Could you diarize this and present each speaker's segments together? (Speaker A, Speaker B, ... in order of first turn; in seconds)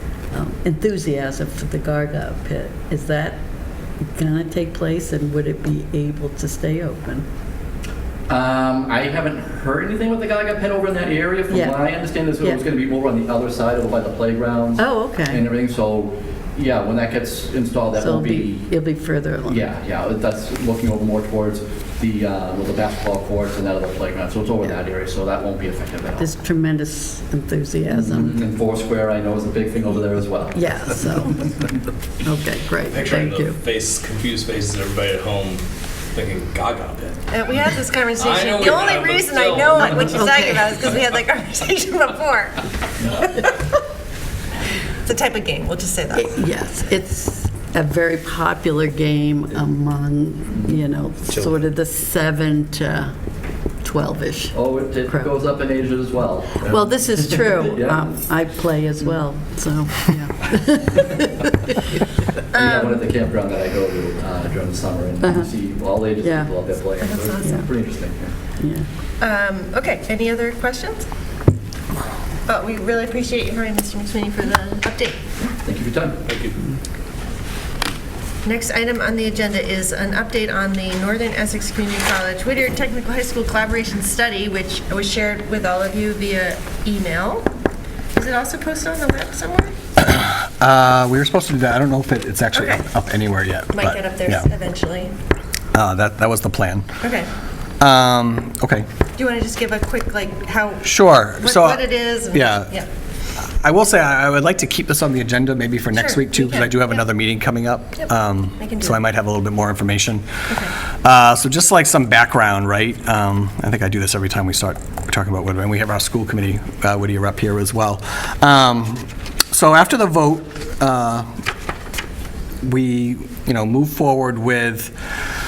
Speaker A: 0.8-2.1, 2.7-3.4, 6.9-7.2, 18.0-18.5, 26.4-28.3, 30.7-31.3, 32.3-33.6, 40.2-40.6, 46.4-53.1, 53.8-55.3, 56.7-61.4, 65.2-65.5, 66.3-66.5, 68.6-68.9
Speaker B: 8.3-26.4, 27.9-31.1, 50.5-50.9, 54.5-58.1, 62.5-68.3, 75.6-76.2
Speaker C: 32.9-41.0, 51.3-51.6, 76.3-76.6
Speaker D: 37.3-42.6, 43.1-43.5, 45.1-46.8, 62.5-63.0, 67.0-67.7, 69.2-71.1, 72.5-75.2, 78.5-87.5, 88.2-89.7, 92.5-92.8, 93.7-95.1, 97.0-97.3, 99.2-102.8, 106.0-107.0, 108.6-109.0
Speaker E: 90.0-94.5, 95.7-96.9, 97.8-98.9, 100.8-102.8, 103.4-110.3, 111.0-121.3, 122.6-125.0